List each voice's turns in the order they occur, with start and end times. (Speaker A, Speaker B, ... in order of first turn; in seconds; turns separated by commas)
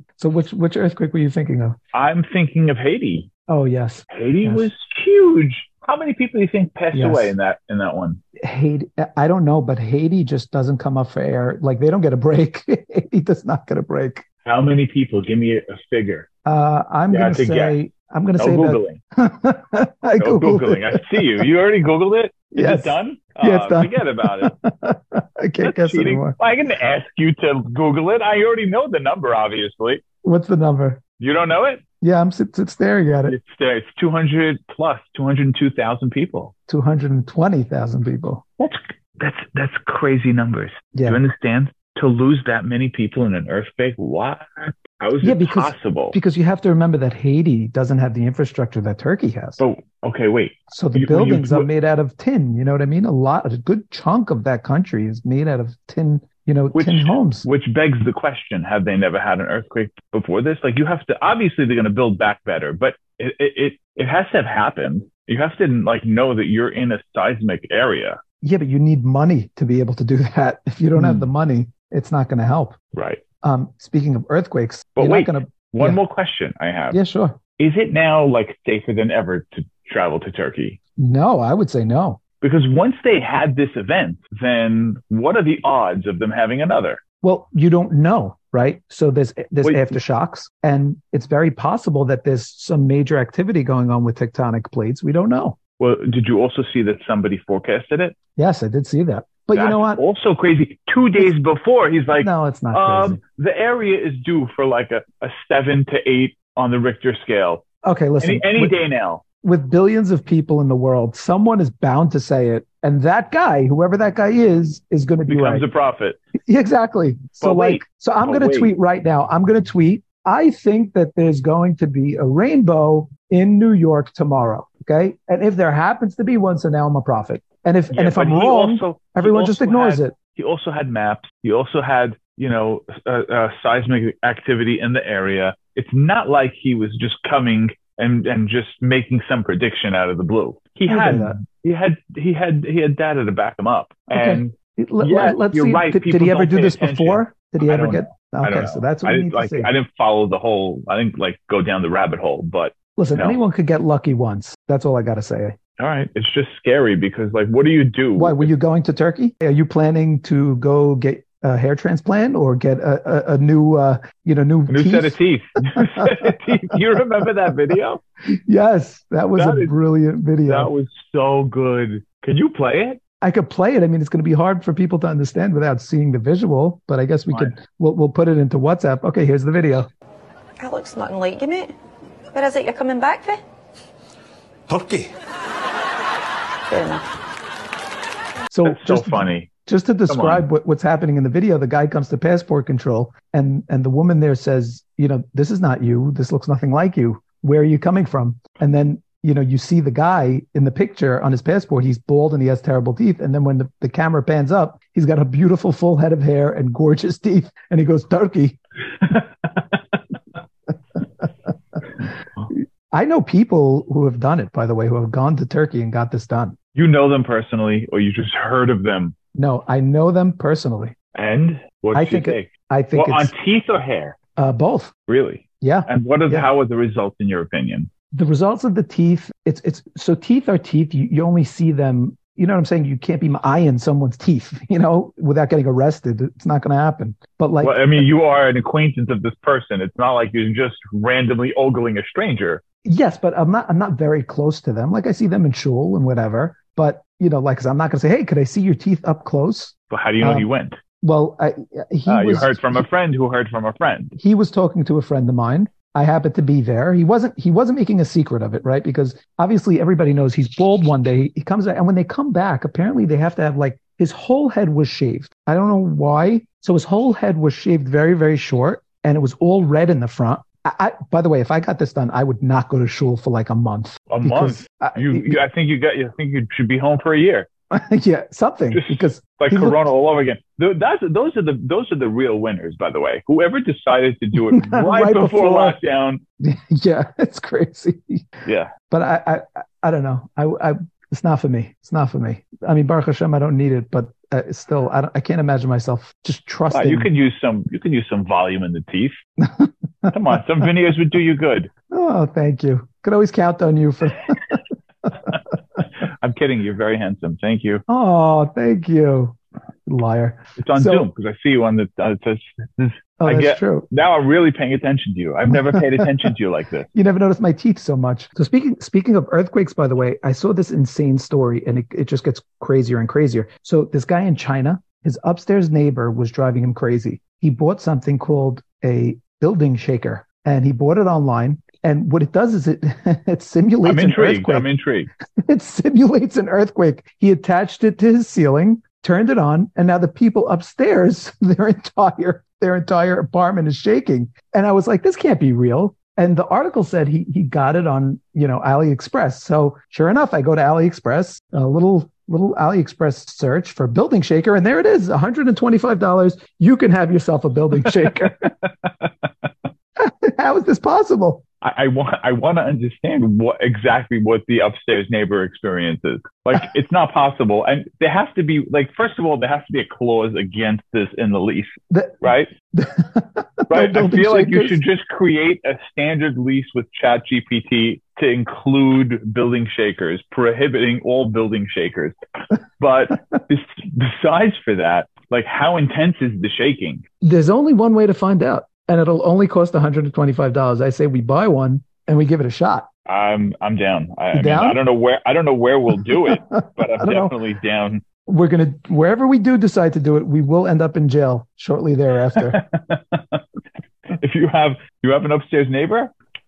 Speaker A: 0.2-1.8, Speaker B: 1.9-3.3, Speaker A: 3.5-4.7, Speaker B: 4.1-8.2, Speaker A: 6.9-7.3, Speaker A: 8.4-14.2, Speaker B: 14.4-16.3, Speaker A: 16.4-21.3, Speaker B: 17.1-17.8, Speaker B: 18.4-19.0, Speaker B: 20.2-24.5, Speaker A: 22.5-26.4, Speaker B: 25.6-30.0, Speaker A: 30.2-31.0, Speaker B: 31.2-31.8, Speaker A: 32.0-33.4, Speaker B: 33.2-36.5, Speaker A: 36.7-38.4, Speaker B: 38.6-46.1, Speaker A: 40.9-41.2, Speaker A: 45.2-49.6, Speaker B: 49.6-51.7, Speaker A: 50.7-57.5, Speaker B: 56.7-68.2, Speaker A: 68.4-72.8, Speaker B: 70.9-71.3, Speaker B: 72.9-73.2, Speaker A: 73.4-76.0, Speaker B: 75.0-77.0, Speaker A: 76.9-77.4, Speaker B: 77.6-80.8, Speaker A: 81.0-82.2, Speaker B: 82.4-87.0, Speaker A: 87.2-95.6, Speaker B: 89.6-90.0, Speaker B: 95.8-98.2, Speaker A: 98.3-100.0, Speaker B: 99.5-107.6, Speaker A: 102.2-103.2, Speaker A: 107.8-108.8, Speaker B: 108.2-109.2, Speaker A: 109.4-115.7, Speaker B: 115.3-116.2, Speaker A: 116.4-130.1, Speaker B: 117.4-118.7, Speaker B: 127.9-153.4, Speaker A: 140.9-141.4, Speaker A: 144.1-149.7, Speaker A: 152.9-155.6, Speaker B: 155.8-158.5, Speaker A: 158.2-165.2, Speaker B: 164.7-168.0, Speaker A: 165.7-166.3, Speaker A: 168.3-170.7, Speaker B: 169.3-169.7, Speaker B: 170.5-173.0, Speaker A: 173.2-179.9, Speaker C: 180.6-181.7, Speaker C: 182.3-183.4, Speaker C: 186.7-187.0, Speaker A: 188.5-208.6, Speaker B: 188.6-189.5, Speaker B: 190.1-190.4, Speaker B: 209.1-209.7, Speaker A: 212.5-216.5, Speaker B: 216.7-219.1, Speaker A: 219.3-220.9, Speaker B: 221.1-224.2, Speaker A: 221.9-223.3, Speaker A: 224.3-224.9, Speaker B: 225.1-227.9, Speaker A: 225.6-226.5, Speaker A: 228.1-238.0, Speaker B: 237.6-242.6, Speaker A: 242.8-250.5, Speaker B: 249.9-250.8, Speaker A: 251.0-252.9, Speaker B: 252.1-254.2, Speaker A: 254.2-275.4, Speaker B: 274.1-277.5, Speaker A: 277.7-279.9, Speaker B: 278.7-286.2, Speaker A: 284.4-285.8, Speaker A: 286.4-288.3, Speaker B: 288.4-288.7, Speaker A: 288.9-297.1, Speaker B: 296.7-299.2, Speaker A: 299.4-300.1, Speaker B: 300.1-301.7, Speaker A: 301.9-304.6, Speaker B: 306.0-307.8, Speaker A: 307.9-311.1, Speaker B: 310.6-316.9, Speaker A: 313.2-313.9, Speaker A: 315.7-316.1, Speaker A: 316.9-334.7, Speaker B: 333.8-335.1, Speaker A: 335.4-358.5, Speaker B: 357.9-358.3, Speaker B: 358.8-359.5, Speaker A: 360.0-361.4, Speaker B: 361.6-372.5, Speaker A: 371.9-374.8, Speaker B: 373.7-382.1, Speaker B: 382.8-387.0, Speaker A: 387.2-392.9, Speaker B: 393.1-398.0, Speaker A: 394.3-394.8, Speaker A: 396.3-397.3, Speaker A: 398.2-402.6, Speaker B: 402.3-403.4, Speaker B: 404.1-406.1